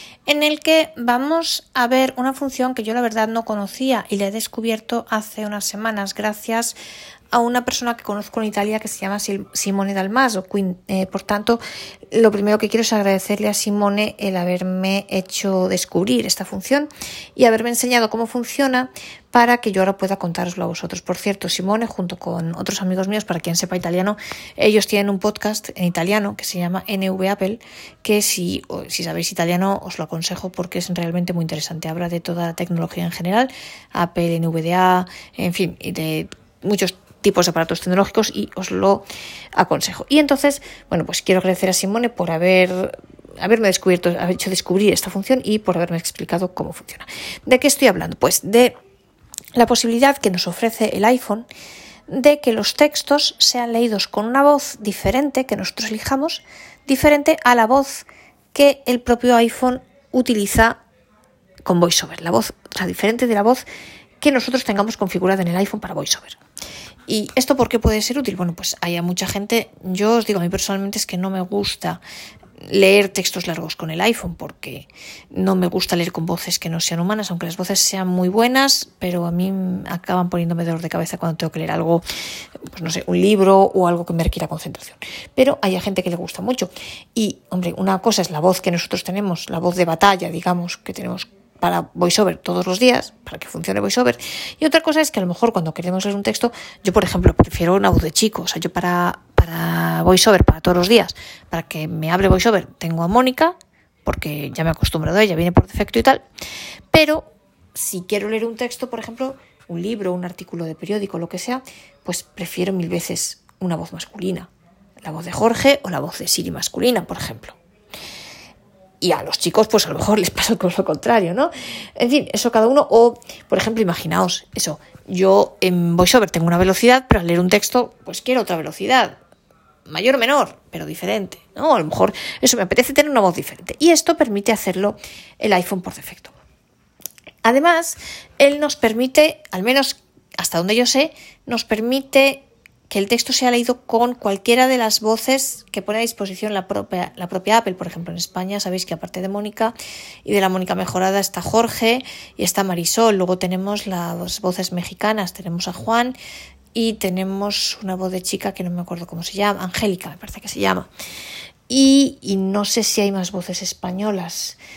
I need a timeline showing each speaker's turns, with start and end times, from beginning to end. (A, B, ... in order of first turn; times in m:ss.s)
0:00.3-0:06.8 A
0:07.3-0:48.8 A
0:49.6-0:51.4 A
0:52.1-1:00.8 A
1:01.6-1:03.6 A
1:04.2-1:06.4 A
1:07.1-1:12.0 A
1:12.6-1:22.0 A
1:22.7-1:46.2 A
1:46.9-1:54.5 A
1:55.0-1:57.6 A
1:59.0-2:09.2 A
2:09.9-2:16.3 A
2:17.4-2:36.2 A
2:36.7-2:40.9 A
2:41.7-2:44.6 A